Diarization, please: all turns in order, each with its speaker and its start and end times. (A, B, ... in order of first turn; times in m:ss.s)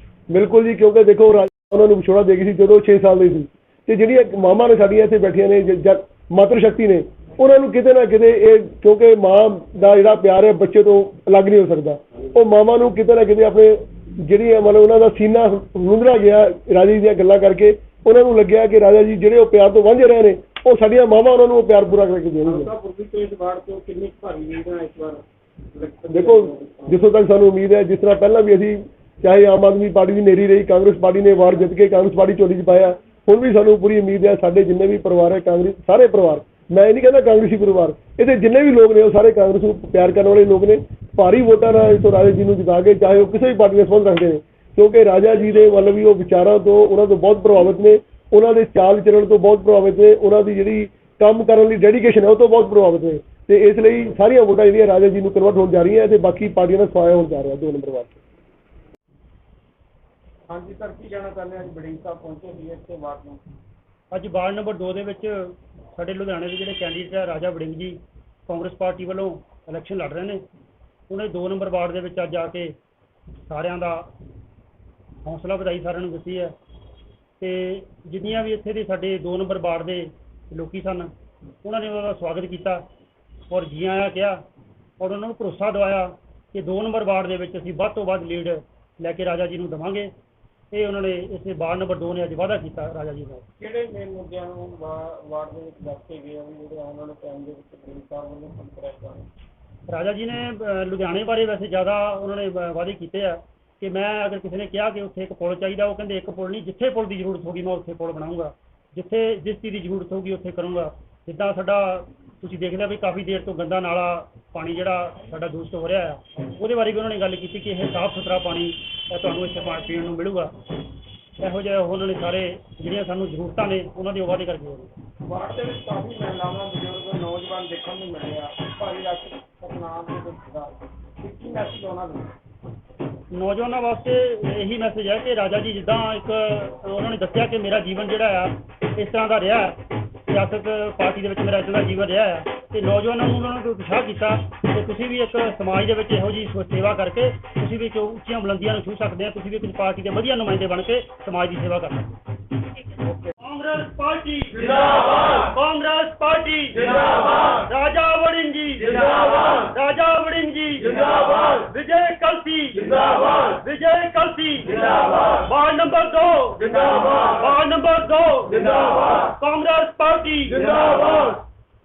0:00.3-0:22.7 A
0:22.4-0:27.0 B
0:26.1-0:58.2 A
1:00.5-1:03.4 B
1:04.1-1:10.4 C
1:11.1-1:12.7 C
1:13.4-1:14.1 C
1:15.2-1:16.5 C
1:17.4-1:21.1 C
1:21.6-1:22.8 C
1:23.5-1:24.4 C
1:25.0-1:30.1 C
1:30.7-1:33.4 C
1:33.6-1:39.3 B
1:39.9-2:00.5 C
2:01.4-2:04.9 C
2:05.2-2:12.3 B
2:13.3-2:32.1 C
2:33.4-2:51.4 C